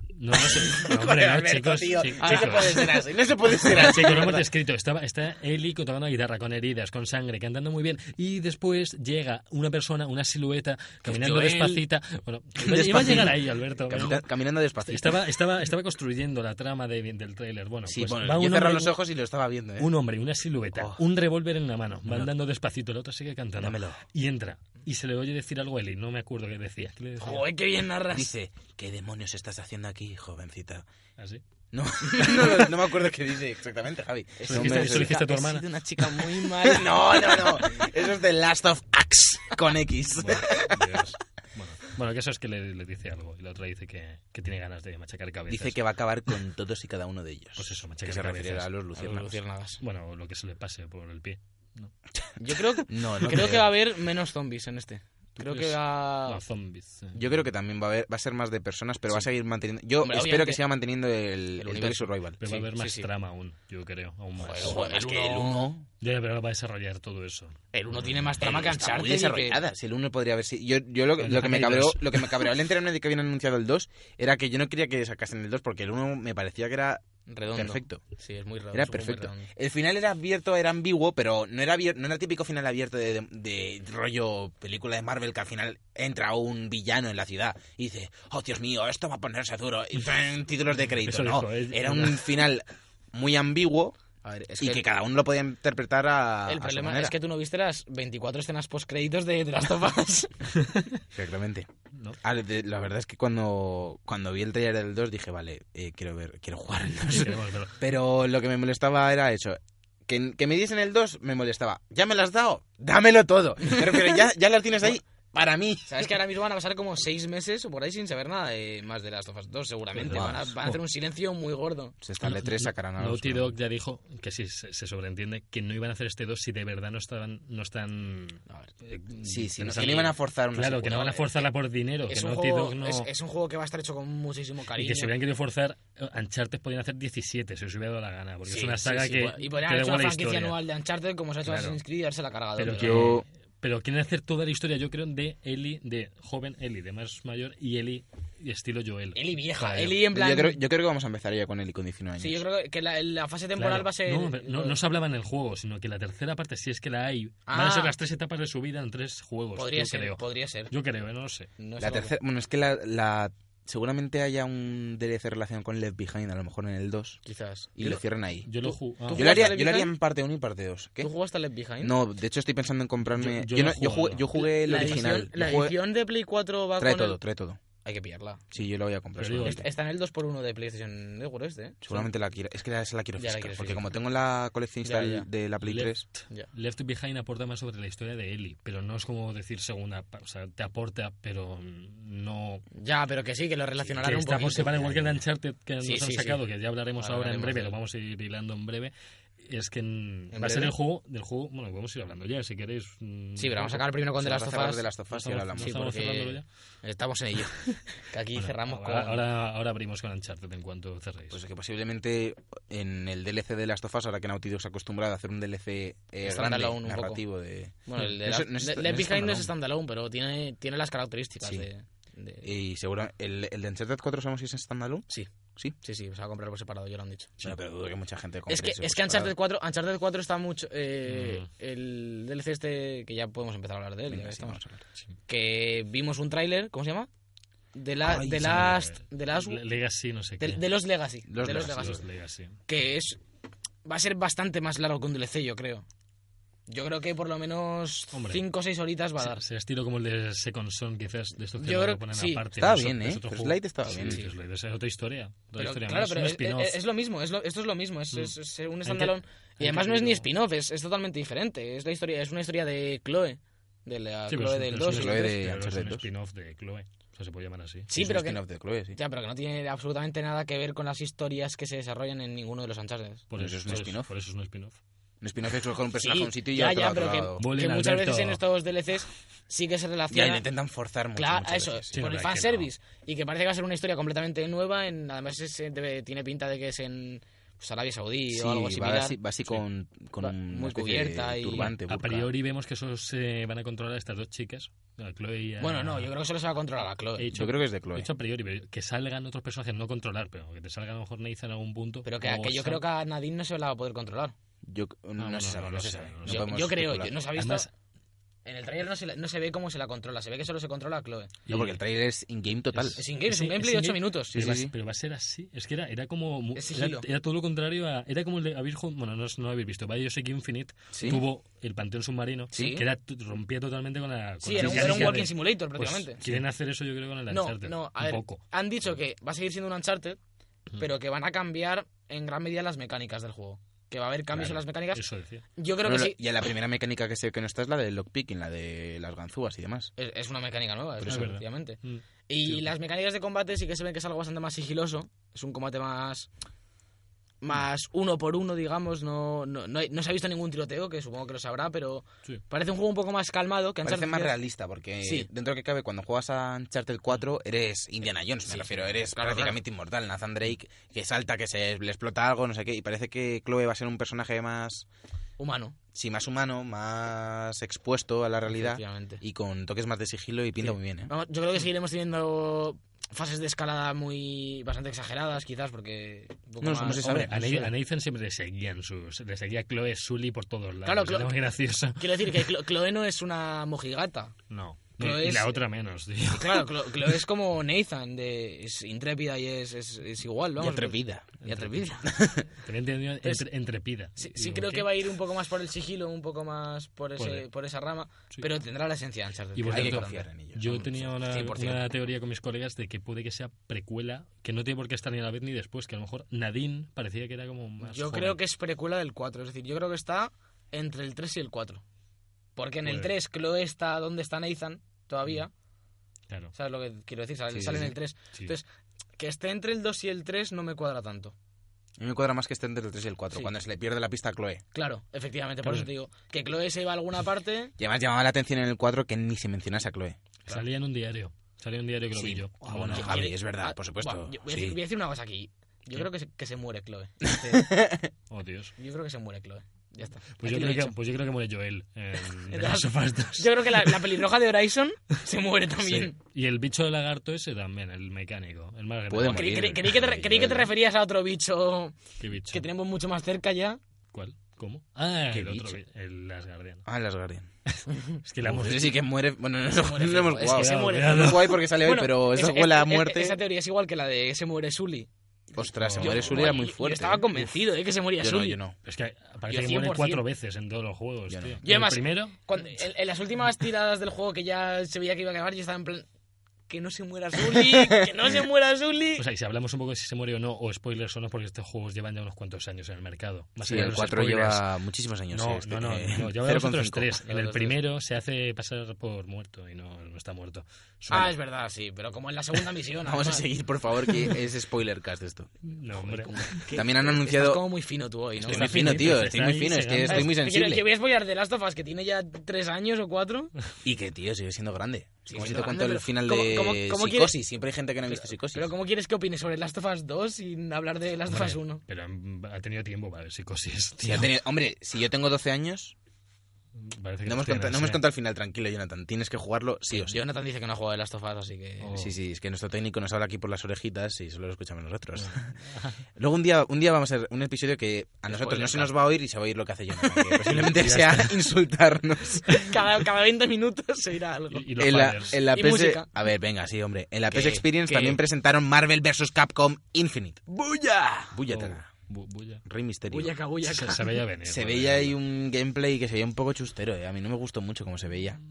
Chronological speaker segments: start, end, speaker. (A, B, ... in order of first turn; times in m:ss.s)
0:00.2-0:02.8 A
0:00.8-0:04.4 B
0:02.1-0:03.0 C
0:03.6-0:14.2 A
0:11.0-0:11.8 B
0:12.6-0:15.2 B
0:14.8-0:19.0 A
0:17.8-0:19.9 B
0:19.8-0:27.5 A
0:20.7-0:21.0 B
0:23.6-0:24.0 B
0:27.2-0:28.3 C
0:28.1-0:30.8 B
0:31.7-0:35.2 B
0:32.1-0:32.6 C
0:34.4-0:35.6 A
0:34.4-0:37.6 C
0:36.5-0:41.1 B
0:40.2-0:45.8 A
0:45.5-0:49.4 B
0:47.6-0:49.2 A
0:49.0-0:49.8 C
0:49.8-0:51.9 A
0:52.4-0:56.4 C
0:52.8-0:53.7 B
0:55.4-0:57.4 A
0:57.1-1:02.4 B
1:00.0-1:00.6 C
1:01.6-1:03.1 C
1:02.4-1:04.8 A
1:04.4-1:05.7 C
1:04.5-1:05.8 B
1:06.0-1:08.3 A
1:07.7-1:09.6 C
1:08.4-1:18.0 B
1:11.2-1:12.4 A
1:17.3-1:19.5 C
1:18.7-1:37.2 B
1:31.0-1:32.3 A
1:34.3-1:34.8 C
1:36.4-1:40.3 C
1:41.1-1:41.7 B
1:42.2-1:56.1 B
1:47.1-1:47.7 A
1:55.9-2:02.0 C
2:00.0-2:00.8 A
2:00.0-2:00.5 B
2:02.0-2:03.6 B
2:02.2-2:13.1 A
2:09.2-2:11.2 B
2:09.7-2:10.0 C
2:10.9-2:11.4 C
2:12.1-2:15.1 C
2:14.8-2:20.6 A
2:18.5-2:23.1 C
2:21.4-2:21.8 A
2:22.6-2:30.0 A
2:22.7-2:23.2 B
2:29.1-2:30.6 C
2:30.1-2:32.4 B
2:32.2-2:34.8 C
2:33.6-2:41.5 A
2:37.5-2:37.9 C
2:39.5-2:40.7 C
2:41.6-2:42.2 C
2:41.8-2:47.2 B
2:47.2-2:48.0 C
2:47.7-2:51.1 B
2:48.5-2:49.5 A
2:48.6-2:49.9 C
2:51.0-2:52.0 C
2:51.8-2:55.8 B
2:53.1-2:55.2 A
2:54.3-2:57.2 C
2:56.8-2:57.6 B
2:57.8-2:58.5 C
2:58.5-2:59.6 B
2:59.2-2:59.6 A
2:59.4-3:02.1 C
3:01.8-3:06.0 B
3:03.2-3:03.8 C
3:04.8-3:05.3 C
3:05.6-3:12.6 A
3:12.7-3:15.2 C
3:14.0-3:23.8 A
3:15.8-3:16.4 C
3:17.0-3:17.8 C
3:20.3-3:20.7 C
3:23.4-3:24.9 C
3:24.2-3:25.8 B
3:25.1-3:26.4 A
3:25.6-3:29.2 C
3:28.3-3:31.4 A
3:31.3-3:39.5 B
3:36.2-3:37.2 C
3:37.8-3:42.5 C
3:41.4-3:41.7 B
3:42.4-3:45.8 B
3:45.8-3:47.4 C
3:47.4-3:49.3 B
3:48.5-3:54.6 C
3:51.1-3:51.5 A
3:54.1-3:54.8 B
3:55.3-3:57.1 C
3:57.7-3:59.6 C
3:58.0-3:58.7 B
3:58.4-4:00.6 A
4:00.4-4:02.0 C
4:01.3-4:02.0 B
4:01.4-4:02.6 A
4:02.7-4:03.2 C
4:03.8-4:05.8 C
4:06.7-4:09.4 C
4:08.1-4:08.4 A
4:09.2-4:16.8 A
4:11.6-4:12.4 C
4:12.5-4:14.2 B
4:13.9-4:14.3 C
4:15.6-4:25.3 C
4:18.8-4:20.3 A
4:24.3-4:27.9 A
4:24.8-4:26.0 B
4:27.9-4:28.4 C
4:27.9-4:29.0 B
4:28.9-4:33.2 C
4:33.3-4:34.8 A
4:33.4-4:34.1 B
4:35.2-4:37.5 B
4:36.0-4:40.4 C
4:37.4-4:38.4 A
4:40.1-4:42.0 B
4:41.2-4:49.2 C
4:41.9-4:42.7 A
4:48.3-4:52.3 B
4:50.2-4:51.7 C
4:51.6-4:56.1 A
4:55.6-4:57.2 C
4:57.2-5:02.8 A
4:57.3-4:58.1 B
5:02.0-5:04.4 C
5:04.6-5:07.1 B
5:05.2-5:06.6 A
5:06.2-5:07.7 C
5:07.3-5:07.7 A
5:08.4-5:11.3 C
5:11.5-5:11.8 A
5:11.5-5:13.0 B
5:12.7-5:28.4 A
5:13.0-5:14.5 C
5:14.3-5:14.7 B
5:16.5-5:17.0 C
5:20.9-5:21.2 B
5:22.5-5:22.8 C
5:24.4-5:26.2 C
5:24.6-5:25.2 B
5:27.3-5:30.2 C
5:30.8-5:35.0 C
5:34.3-5:35.4 A
5:35.6-5:36.2 C
5:35.8-5:39.9 B
5:40.0-5:46.3 C
5:41.0-5:41.3 B
5:41.0-5:42.6 A
5:47.4-5:54.4 C
5:53.8-6:04.8 B
5:55.0-5:55.3 C
5:58.5-5:59.6 C
6:05.4-6:05.8 C
6:05.9-6:11.1 B
6:08.5-6:09.2 C
6:11.1-6:17.7 C
6:16.6-6:17.3 B
6:17.0-6:22.4 A
6:20.8-6:21.4 C
6:22.0-6:24.4 C
6:24.5-6:27.1 A
6:25.0-6:25.6 C
6:26.3-6:32.1 C
6:30.6-6:31.3 B
6:31.4-6:34.9 A
6:32.0-6:32.4 B
6:34.2-6:41.8 C
6:37.2-6:37.5 A
6:39.6-6:48.4 A
6:39.7-6:41.1 B
6:47.8-6:51.8 C
6:52.6-6:55.5 C
6:52.8-6:53.1 A
6:56.5-6:58.6 C
6:57.5-6:57.9 B
6:59.2-7:01.3 C
7:02.0-7:04.6 B
7:04.7-7:07.7 C
7:07.8-7:10.2 B
7:10.5-7:13.3 A
7:12.1-7:14.8 B
7:12.9-7:17.7 C
7:17.2-7:18.1 B
7:18.3-7:18.7 A
7:18.8-7:21.0 C
7:20.4-7:24.2 A
7:22.5-7:26.1 C
7:25.8-7:29.8 A
7:29.1-7:30.7 B
7:29.2-7:33.8 C
7:32.2-7:32.6 A
7:34.1-7:36.8 A
7:35.3-7:35.8 B
7:36.8-7:37.5 B
7:37.7-7:39.0 A
7:38.4-7:43.4 B
7:39.7-7:45.1 C
7:40.4-7:41.6 A
7:45.5-7:47.3 B
7:45.8-7:46.6 A
7:46.0-7:48.6 C
7:48.2-7:48.7 B
7:48.8-7:52.4 A
7:49.5-7:50.2 C
7:51.3-7:51.6 B
7:51.6-7:56.1 C
7:56.7-7:59.2 C
7:57.6-7:58.0 B
7:59.2-8:04.7 A
8:03.6-8:07.1 B
8:05.3-8:11.3 A
8:07.2-8:07.8 C
8:11.1-8:13.5 C
8:13.0-8:17.6 B
8:15.6-8:16.6 A
8:16.2-8:19.2 C
8:18.4-8:20.8 B
8:18.4-8:20.3 A
8:20.0-8:23.5 C
8:23.8-8:28.7 B
8:25.2-8:27.3 C
8:28.0-8:31.8 C
8:31.3-8:34.3 A
8:34.0-8:35.9 B
8:36.8-8:38.0 A
8:37.2-8:40.2 B
8:39.9-8:41.9 C
8:41.8-8:42.1 A
8:42.0-8:45.5 B
8:45.2-8:46.0 A
8:46.1-8:52.6 B
8:48.3-8:48.9 C
8:50.4-8:51.5 A
8:52.5-8:56.1 C
8:54.5-8:55.4 A
8:54.8-9:00.4 B
8:57.3-8:58.2 C
9:00.5-9:01.4 C
9:01.3-9:01.9 B
9:01.5-9:02.6 A
9:02.6-9:03.3 B
9:03.1-9:04.0 C
9:03.6-9:05.1 A
9:04.4-9:08.4 B